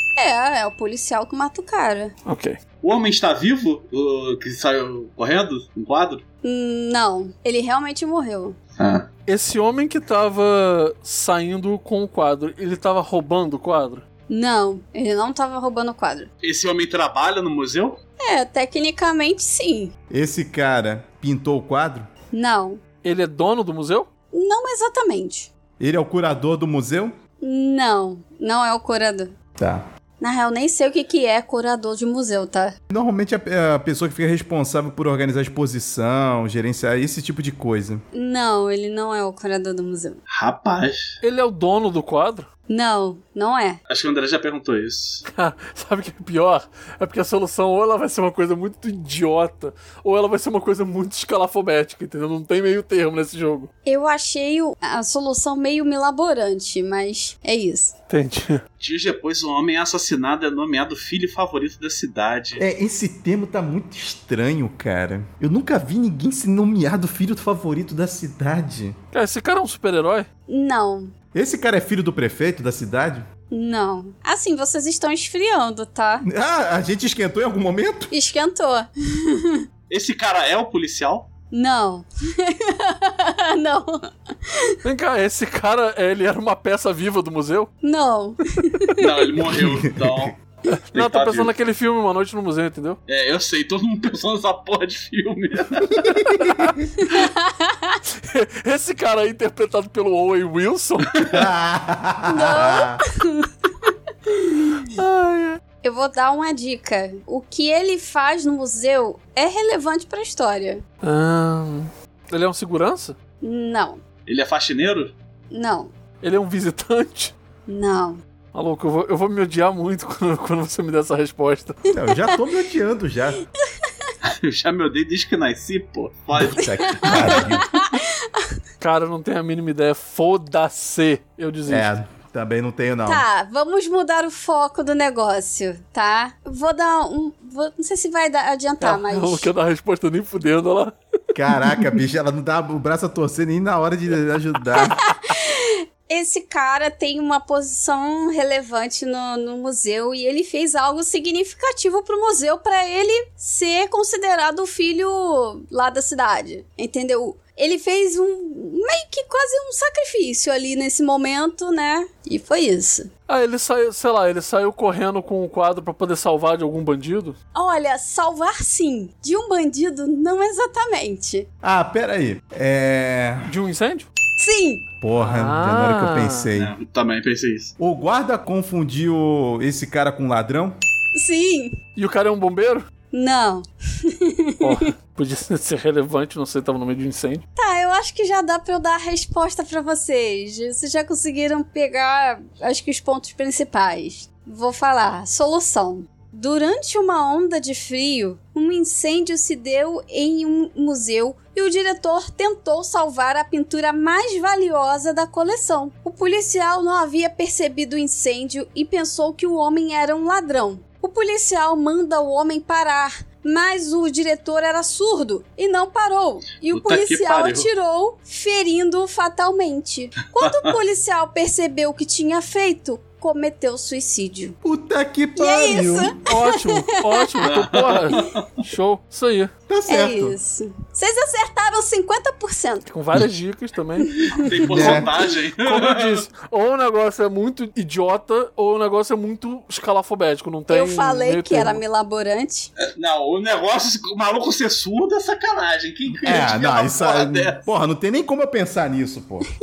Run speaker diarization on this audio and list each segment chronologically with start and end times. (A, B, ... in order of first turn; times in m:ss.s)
0:00.2-0:02.1 A
0:02.3-0:02.6 B
0:02.8-0:06.2 C
0:06.4-0:08.6 A
0:08.8-0:09.1 C
0:09.3-0:14.0 B
0:14.3-0:16.3 A
0:16.4-0:18.0 C
0:18.2-0:19.9 A
0:20.1-0:22.1 D
0:22.3-0:22.8 A
0:23.0-0:24.1 B
0:24.3-0:25.5 A
0:25.8-0:27.2 D
0:27.4-0:29.3 A
0:29.6-0:29.8 D
0:30.2-0:32.8 A
0:32.9-0:38.0 D
0:38.1-0:40.2 A
0:40.3-0:41.0 C
0:41.2-0:42.5 B
0:42.7-0:43.8 A
0:43.9-0:45.2 C
0:45.3-0:53.7 B
0:53.9-0:57.9 A
0:58.1-0:58.6 B
0:58.8-1:02.6 C
1:02.6-1:09.0 D
1:09.1-1:10.3 B
1:10.5-1:11.1 A
1:11.3-1:13.3 D
1:13.5-1:16.2 A
1:16.2-1:18.1 D
1:18.1-1:19.6 A
1:19.9-1:21.3 C
1:21.5-1:24.8 A
1:24.8-1:27.7 B
1:27.8-1:29.3 A
1:29.0-1:30.3 C
1:29.4-1:30.3 D
1:30.7-1:33.0 B
1:30.9-1:31.5 C
1:33.1-1:36.2 C
1:35.8-1:36.8 D
1:36.4-1:37.1 B
1:37.0-1:38.0 A
1:38.1-1:41.2 B
1:41.3-1:43.0 D
1:42.3-1:44.9 A
1:44.8-1:45.6 B
1:45.8-1:50.8 A
1:51.0-1:53.2 B
1:53.4-1:54.0 A
1:54.3-1:55.2 C
1:55.5-1:55.9 A
1:56.2-1:57.3 B
1:57.7-1:58.2 A
1:58.5-2:01.8 B
2:01.9-2:03.4 D
2:02.0-2:02.3 A
2:04.2-2:07.4 C
2:06.4-2:07.7 D
2:06.8-2:08.5 A
2:08.8-2:11.9 B
2:11.7-2:13.2 D
2:13.1-2:19.5 A
2:18.8-2:20.9 B
2:21.4-2:25.0 D
2:21.5-2:21.9 B
2:24.8-2:43.1 A
2:43.3-2:47.4 B
2:47.5-2:51.5 A
2:51.6-2:53.5 D
2:53.4-2:54.1 B
2:54.4-2:54.8 A
2:55.0-2:56.8 D
2:55.2-2:56.5 B
2:56.6-2:57.7 C
2:57.8-3:00.8 D
3:01.2-3:01.8 A
3:02.0-3:02.9 B
3:03.1-3:04.8 A
3:04.6-3:07.4 B
3:07.6-3:44.6 A
3:36.7-3:37.7 C
3:44.6-3:46.2 D
3:45.4-3:47.4 A
3:46.2-3:49.5 B
3:47.4-3:48.5 C
3:49.7-3:50.4 D
3:49.9-3:52.9 A
3:52.9-3:54.2 B
3:54.1-3:54.5 A
3:54.3-3:56.2 C
3:54.7-3:55.2 D
3:54.7-3:55.0 B
3:55.6-4:01.8 B
4:00.7-4:02.7 A
4:02.9-4:07.6 C
4:06.2-4:09.5 D